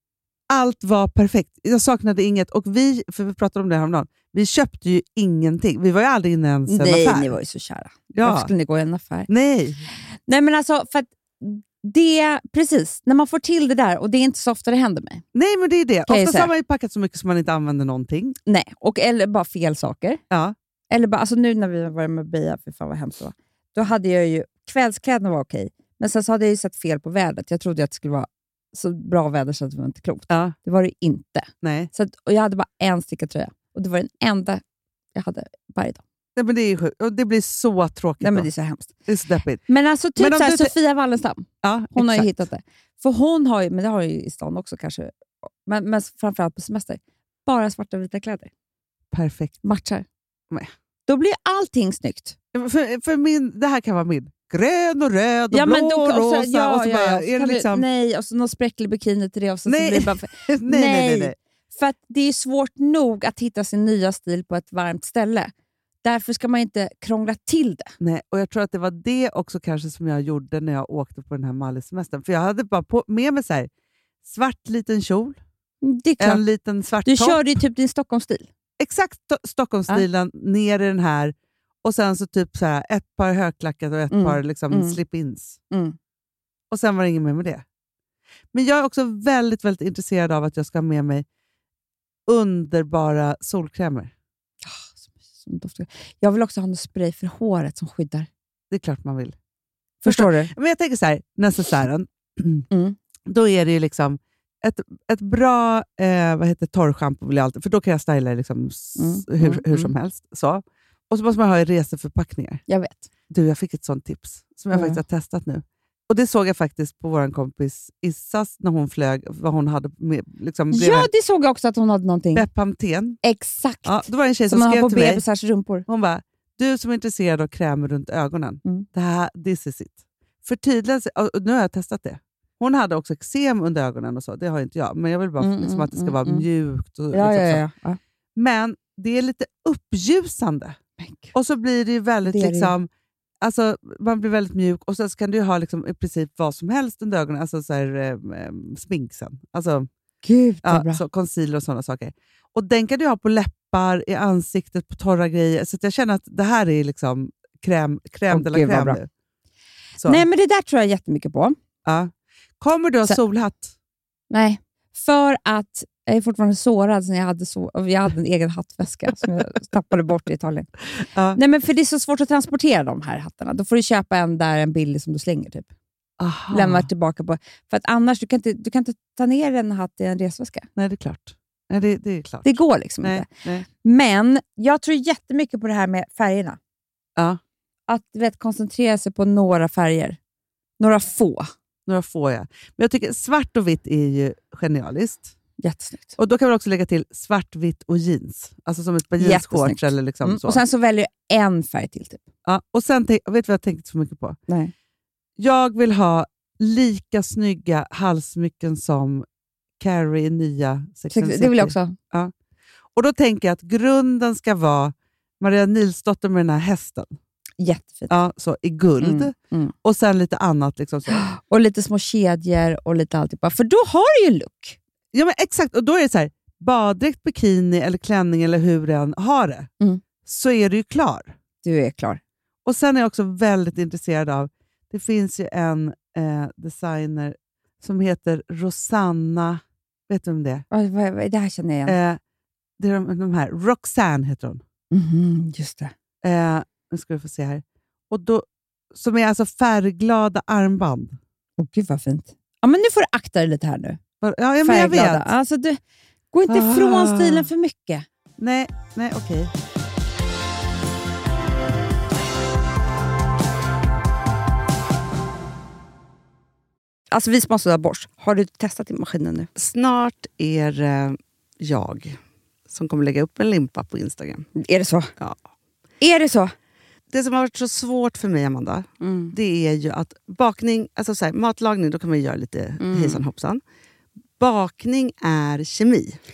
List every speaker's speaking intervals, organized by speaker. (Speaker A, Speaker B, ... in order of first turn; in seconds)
Speaker A: 0.5-7.3, 8.1-8.5, 9.3-9.8, 15.3-18.4, 20.3-20.5, 30.3-30.6, 31.6-31.9, 36.4-38.5, 39.1-39.6, 40.1-40.7, 41.6-42.3, 49.1-49.6, 52.5-57.9, 59.6-61.3, 68.0-73.7, 74.2-75.4, 76.2-77.5, 78.8-85.6, 86.7-87.6, 88.5-91.2, 92.2-94.1, 98.7-99.3, 100.0-102.7, 103.2-112.6, 113.3-121.1, 122.3-123.2, 123.8-125.2, 125.9-137.6, 138.3-140.8, 141.3-142.9, 143.4-149.9, 150.6-159.1, 160.0-160.2, 161.8-163.7, 171.1-171.4, 176.2-176.9, 180.8-183.7, 191.9-195.3, 196.2-200.6, 202.4-204.4, 205.4-209.2, 209.8-212.3, 212.9-217.2, 218.1-221.2, 225.1-229.7, 230.2-231.3, 232.6-240.7, 241.8-242.2, 242.8-244.6, 246.2-251.2, 254.2-255.3, 256.5-257.5, 258.4-259.5, 269.6-274.5, 277.1-283.6, 284.4-286.2
Speaker B: 6.7-9.3, 10.3-15.2, 16.1-16.5, 18.5-20.2, 20.9-34.6, 35.1-36.0, 38.2-38.9, 39.7-45.1, 45.6-48.5, 49.6-50.0, 51.1-52.4, 55.5-65.5, 66.0-67.9, 75.8-76.4, 77.0-78.5, 84.1-85.0, 85.7-86.0, 94.6-98.3, 100.0-100.5, 102.7-103.0, 109.0-109.9, 112.7-113.1, 114.7-115.0, 120.7-122.5, 123.2-125.9, 135.4-136.4, 137.1-138.0, 141.0-141.3, 142.2-142.7, 150.2-151.0, 158.3-159.0, 160.0-161.6, 164.3-170.7, 171.3-175.7, 176.5-180.7, 182.4-183.3, 183.8-186.6, 187.9-190.2, 190.8-191.5, 195.6-196.1, 199.2-202.2, 204.5-204.7, 211.1-212.0, 217.6-218.2, 219.0-219.7, 221.1-224.8, 231.6-232.2, 240.7-241.9, 244.9-245.9, 251.6-254.0, 254.6-255.8, 256.3-258.1, 267.1-269.5, 274.5-275.1, 276.0-276.5, 279.0-279.3, 282.8-283.2